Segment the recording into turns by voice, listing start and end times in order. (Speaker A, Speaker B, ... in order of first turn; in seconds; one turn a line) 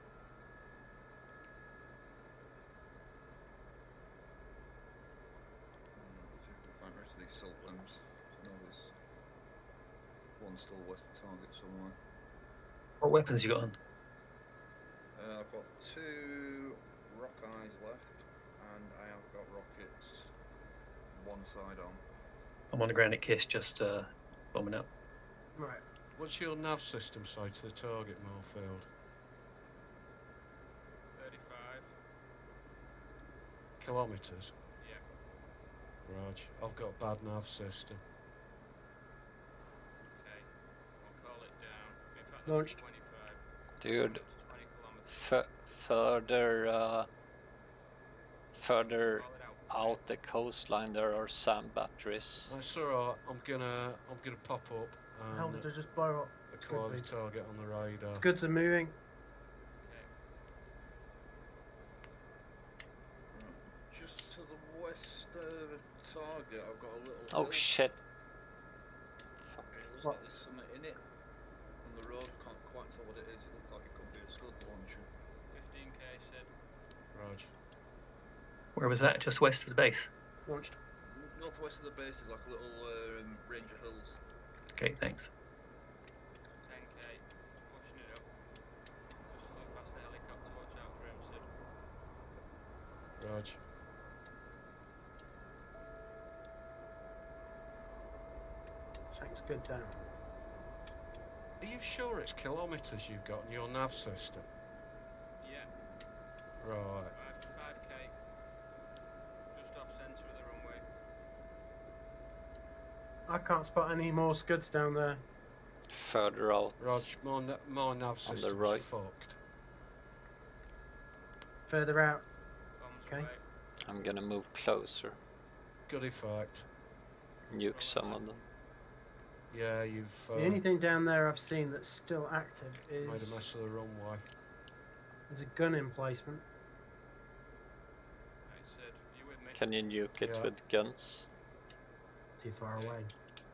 Speaker A: 6.0-8.9
Speaker A: 10.4-12.0
Speaker B: 13.0-13.8
Speaker A: 15.2-20.3
Speaker A: 21.1-22.0
Speaker B: 22.7-24.9
Speaker C: 25.6-25.8
Speaker D: 26.2-28.9
Speaker E: 31.1-31.9
Speaker D: 33.8-34.5
Speaker E: 34.8-35.0
Speaker D: 36.0-38.0
Speaker E: 40.1-45.4
Speaker C: 42.5-42.8
Speaker F: 43.8-44.2
Speaker F: 45.1-47.1
Speaker F: 48.5-52.5
Speaker E: 48.7-50.0
Speaker D: 52.5-55.7
Speaker C: 55.3-57.1
Speaker D: 56.5-58.3
Speaker C: 58.2-59.0
Speaker E: 59.8-60.1
Speaker A: 63.3-67.7
Speaker F: 67.3-68.0
Speaker A: 69.6-71.0
Speaker A: 71.8-75.1
Speaker E: 75.5-76.5
Speaker D: 77.1-77.5
Speaker B: 78.8-80.1
Speaker C: 80.5-80.8
Speaker A: 81.0-84.2
Speaker B: 84.7-85.3
Speaker E: 86.6-88.3
Speaker E: 89.2-91.5
Speaker D: 93.2-93.6
Speaker C: 99.1-100.0
Speaker D: 101.6-104.5
Speaker E: 105.4-105.7
Speaker D: 106.6-107.2
Speaker E: 107.1-108.2
Speaker E: 109.5-110.8
Speaker C: 113.3-115.2
Speaker F: 115.9-117.1
Speaker D: 116.8-119.4
Speaker F: 118.2-118.8
Speaker C: 121.7-122.3
Speaker E: 122.8-123.5
Speaker F: 123.8-125.2
Speaker D: 125.9-126.7
Speaker F: 127.5-128.4
Speaker E: 127.7-128.5
Speaker D: 129.5-130.6
Speaker C: 130.3-133.4
Speaker D: 133.0-134.3
Speaker C: 135.3-136.4
Speaker E: 138.4-139.7
Speaker F: 139.6-141.3
Speaker D: 140.2-140.5
Speaker C: 142.4-143.1
Speaker E: 142.7-143.0